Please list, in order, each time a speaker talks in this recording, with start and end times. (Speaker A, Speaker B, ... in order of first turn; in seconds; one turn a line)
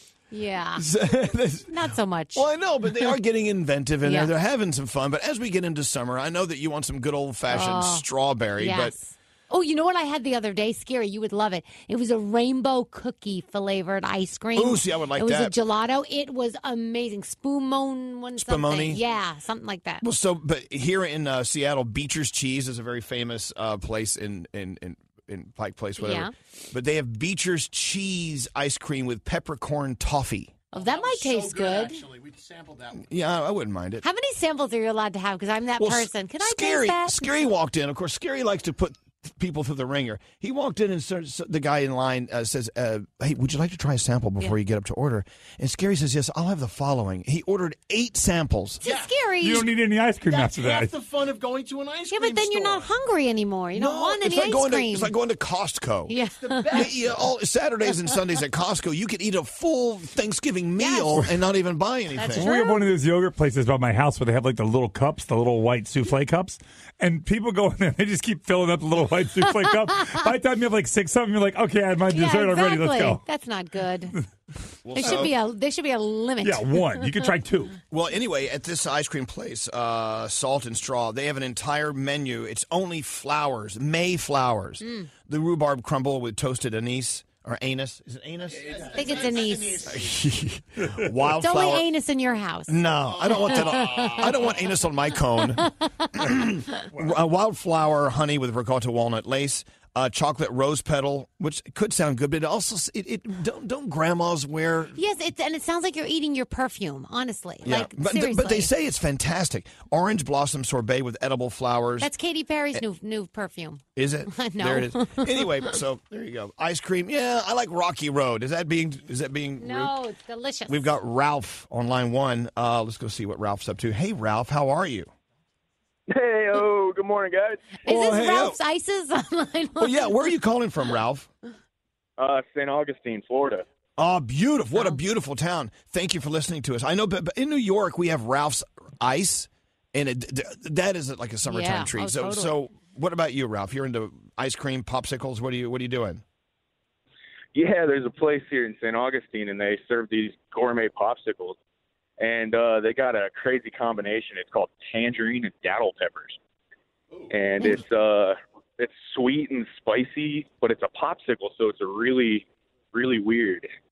Speaker A: 0.3-0.8
Speaker B: 0.8-1.8
Speaker A: 1.7-2.5
Speaker B: 2.4-8.9
Speaker A: 4.0-4.3
Speaker A: 7.5-8.1
Speaker A: 8.6-20.1
Speaker B: 14.5-15.6
Speaker B: 18.4-19.0
Speaker B: 20.0-30.6
Speaker A: 26.0-26.3
Speaker A: 30.7-32.0
Speaker C: 30.7-33.1
Speaker B: 32.9-34.1
Speaker A: 34.0-37.5
Speaker B: 35.8-48.8
Speaker A: 48.8-49.7
Speaker C: 48.8-49.1
Speaker D: 49.4-50.9
Speaker C: 50.3-52.9
Speaker A: 52.1-55.1
Speaker B: 53.7-56.1
Speaker A: 56.1-56.9
Speaker C: 56.4-57.2
Speaker B: 56.7-62.5
Speaker A: 60.8-61.1
Speaker A: 62.2-62.8
Speaker D: 62.3-73.2
Speaker A: 72.1-74.1
Speaker B: 74.8-75.3
Speaker A: 74.9-77.1
Speaker D: 76.4-77.8
Speaker B: 77.9-89.3
Speaker A: 84.8-85.1
Speaker C: 88.5-90.1
Speaker A: 88.9-90.0
Speaker B: 89.8-91.9
Speaker A: 91.4-94.5
Speaker B: 92.7-105.0
Speaker C: 93.3-94.2
Speaker A: 105.0-108.7
Speaker B: 107.6-112.1
Speaker A: 112.0-115.7
Speaker B: 114.0-120.0
Speaker A: 119.6-120.9
Speaker B: 120.7-125.1
Speaker E: 126.1-127.8
Speaker A: 127.8-130.1
Speaker B: 127.9-128.6
Speaker B: 129.8-131.3
Speaker E: 132.2-133.7
Speaker B: 134.0-146.2
Speaker A: 141.5-142.5
Speaker E: 147.5-151.6
Speaker E: 152.2-156.4
Speaker E: 157.3-163.7